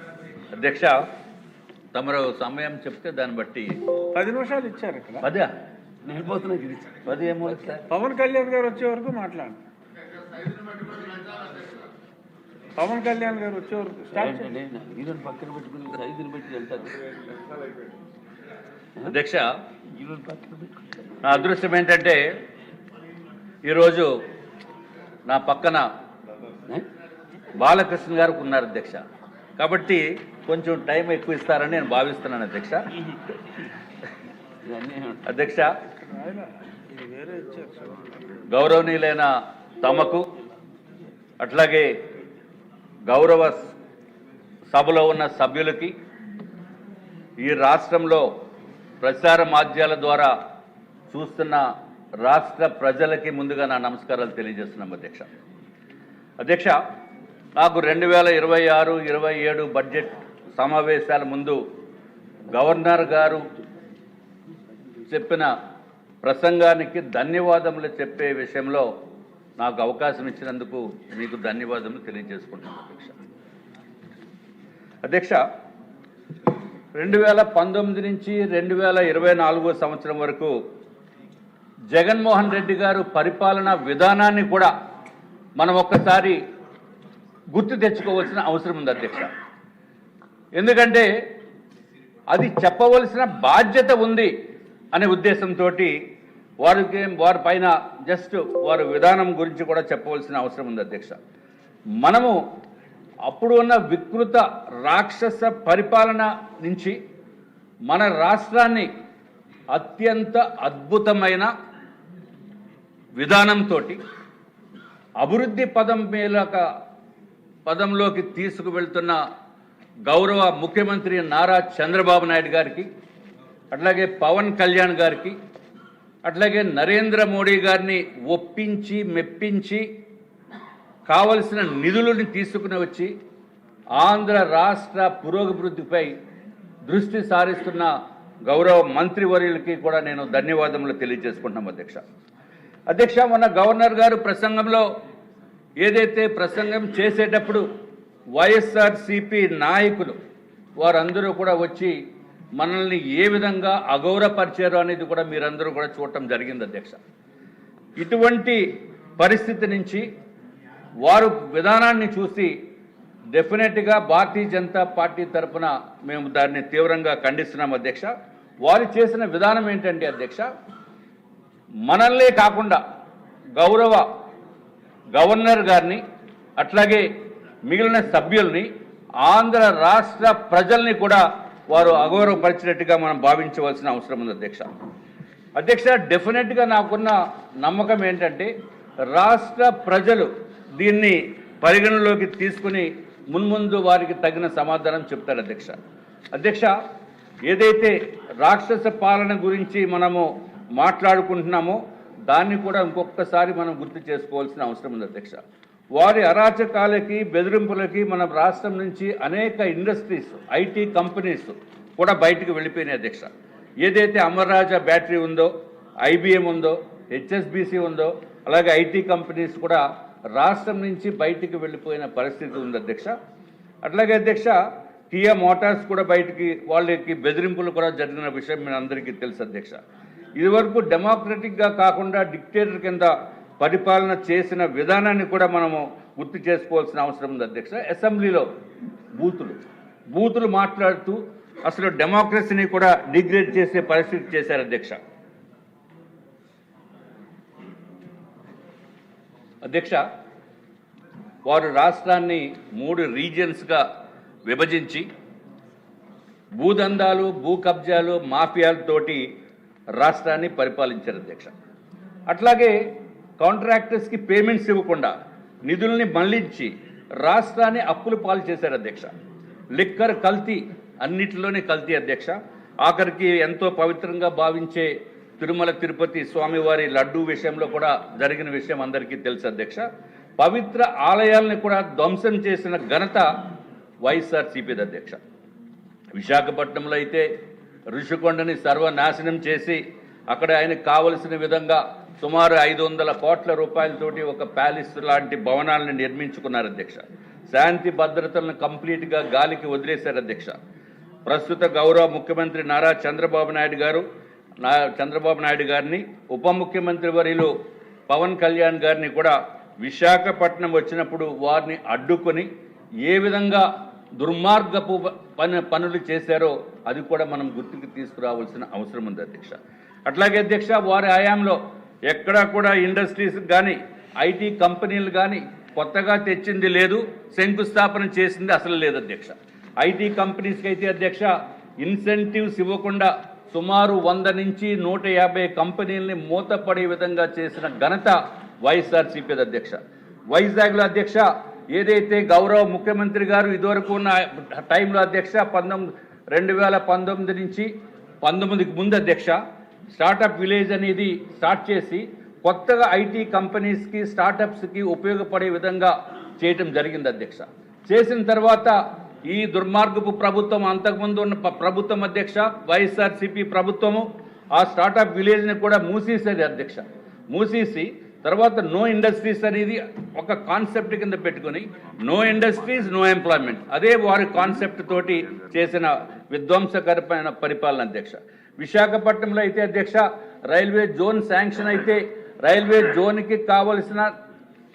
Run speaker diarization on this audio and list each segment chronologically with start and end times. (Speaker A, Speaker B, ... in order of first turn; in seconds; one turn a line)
Speaker A: 0.5-1.0
Speaker A: 1.9-3.8
Speaker B: 4.1-5.3
Speaker A: 5.2-5.5
Speaker C: 6.0-7.8
Speaker A: 7.0-7.8
Speaker B: 7.9-9.6
Speaker B: 12.8-14.5
Speaker C: 14.1-17.2
Speaker A: 19.0-19.5
Speaker C: 19.9-20.9
Speaker A: 21.2-22.3
Speaker A: 23.6-24.1
Speaker A: 25.3-25.8
Speaker A: 27.6-29.0
Speaker A: 29.6-32.9
Speaker C: 34.6-35.2
Speaker A: 35.2-35.7
Speaker B: 36.0-38.0
Speaker A: 38.5-40.2
Speaker A: 41.4-41.9
Speaker A: 43.1-43.7
Speaker A: 44.7-45.9
Speaker A: 47.4-48.2
Speaker A: 49.0-50.3
Speaker A: 51.1-51.6
Speaker A: 52.2-55.2
Speaker A: 56.4-56.8
Speaker A: 57.6-61.6
Speaker A: 62.5-63.5
Speaker A: 65.1-65.5
Speaker A: 66.2-68.9
Speaker A: 69.6-73.2
Speaker A: 75.0-75.4
Speaker A: 77.0-80.5
Speaker A: 81.9-84.7
Speaker A: 85.6-86.4
Speaker A: 87.5-89.3
Speaker A: 90.6-91.1
Speaker A: 92.3-94.3
Speaker A: 94.9-95.9
Speaker A: 96.6-101.2
Speaker A: 102.0-102.4
Speaker A: 103.3-107.0
Speaker A: 107.9-108.9
Speaker A: 109.7-111.5
Speaker A: 113.2-114.0
Speaker A: 115.2-116.6
Speaker A: 117.7-119.2
Speaker A: 120.1-122.9
Speaker A: 123.7-125.3
Speaker A: 126.2-129.8
Speaker A: 131.1-133.1
Speaker A: 134.0-136.1
Speaker A: 136.8-137.9
Speaker A: 138.5-142.0
Speaker A: 142.9-144.8
Speaker A: 145.8-147.6
Speaker A: 148.4-150.2
Speaker A: 150.8-151.9
Speaker A: 152.6-157.0
Speaker A: 158.0-160.0
Speaker A: 161.0-162.5
Speaker A: 163.3-168.1
Speaker A: 168.6-170.5
Speaker A: 171.8-172.8
Speaker A: 173.6-174.0
Speaker A: 175.1-176.0
Speaker A: 176.6-177.1
Speaker A: 177.7-178.7
Speaker A: 179.2-184.7
Speaker A: 185.6-188.5
Speaker A: 189.1-190.3
Speaker A: 190.8-195.8
Speaker A: 196.3-196.7
Speaker A: 197.5-200.2
Speaker A: 200.8-205.4
Speaker A: 205.9-213.3
Speaker A: 213.8-215.5
Speaker A: 216.0-219.8
Speaker A: 220.3-223.1
Speaker A: 223.8-224.6
Speaker A: 225.1-229.8
Speaker A: 230.4-238.5
Speaker A: 239.1-239.6
Speaker A: 240.1-245.0
Speaker A: 249.6-250.0
Speaker A: 251.4-253.8
Speaker A: 254.5-255.1
Speaker A: 256.6-259.2
Speaker A: 260.0-261.5
Speaker A: 262.3-262.8
Speaker A: 263.4-265.1
Speaker A: 265.7-269.1
Speaker A: 269.8-279.8
Speaker A: 280.4-283.3
Speaker A: 284.0-285.2
Speaker A: 286.1-287.3
Speaker A: 287.9-300.6
Speaker A: 301.3-304.0
Speaker A: 304.6-307.5
Speaker A: 308.1-312.5
Speaker A: 313.1-313.6
Speaker A: 314.2-321.6
Speaker A: 322.1-339.8
Speaker A: 340.3-347.7
Speaker A: 348.2-349.4
Speaker A: 349.9-358.8
Speaker A: 359.3-384.1